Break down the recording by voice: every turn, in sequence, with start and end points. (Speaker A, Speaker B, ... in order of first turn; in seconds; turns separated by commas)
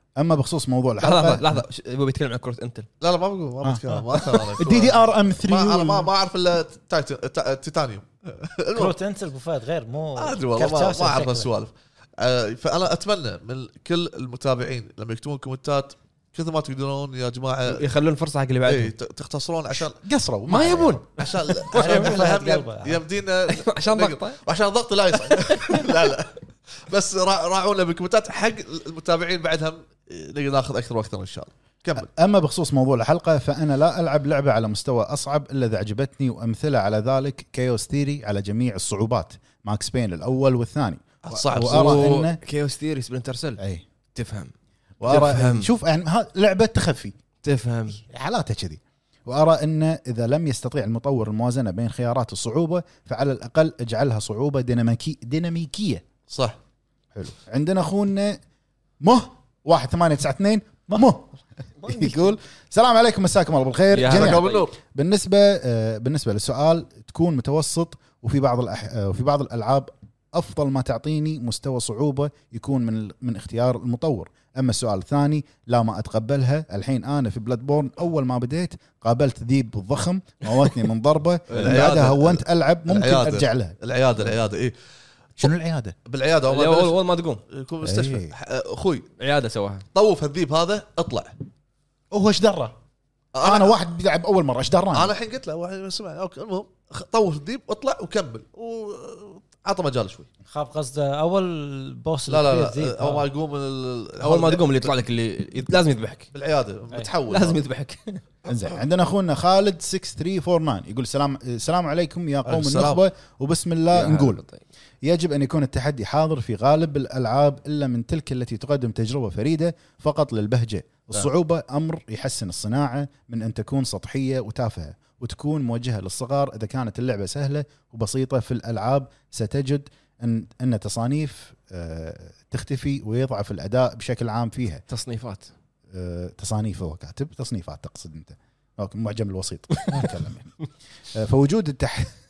Speaker A: 0.1-1.5, Speaker B: 1.0-2.9, Speaker C: 3.0-8.9, Speaker A: 3.6-4.0, Speaker A: 4.6-6.1, Speaker D: 8.7-11.5, Speaker C: 10.2-17.8, Speaker B: 17.7-18.9, Speaker C: 18.6-20.0, Speaker A: 19.7-21.0, Speaker B: 20.5-22.3, Speaker C: 21.2-32.1, Speaker D: 21.7-23.0, Speaker B: 23.5-24.4, Speaker B: 25.3-25.9, Speaker A: 31.9-42.4, Speaker C: 41.2-42.2, Speaker B: 41.5-43.6, Speaker A: 43.6-43.8, Speaker B: 44.1-44.5, Speaker A: 45.0-47.1, Speaker B: 45.0-45.7, Speaker B: 47.4-48.0, Speaker A: 48.1-56.0, Speaker C: 56.3-56.6, Speaker A: 57.1-58.4, Speaker A: 59.0-61.3, Speaker B: 61.8-62.3, Speaker A: 61.9-83.8, Speaker B: 63.9-64.7, Speaker C: 64.0-64.8, Speaker C: 81.5-84.7, Speaker A: 85.4-85.9, Speaker C: 86.0-87.0, Speaker B: 86.5-87.4, Speaker C: 87.5-89.1, Speaker A: 87.8-88.3, Speaker B: 89.2-89.8, Speaker C: 89.9-91.3, Speaker A: 92.1-92.8, Speaker C: 93.3-93.8, Speaker A: 93.4-95.1, Speaker C: 94.9-100.3, Speaker D: 100.5-103.3, Speaker C: 102.3-104.9, Speaker B: 104.2-106.3, Speaker C: 106.3-107.6, Speaker B: 107.3-108.2, Speaker A: 108.5-114.4, Speaker C: 112.5-113.0, Speaker B: 113.9-114.6, Speaker A: 115.0-134.8, Speaker B: 134.9-135.5, Speaker A: 135.9-140.5, Speaker A: 141.1-142.1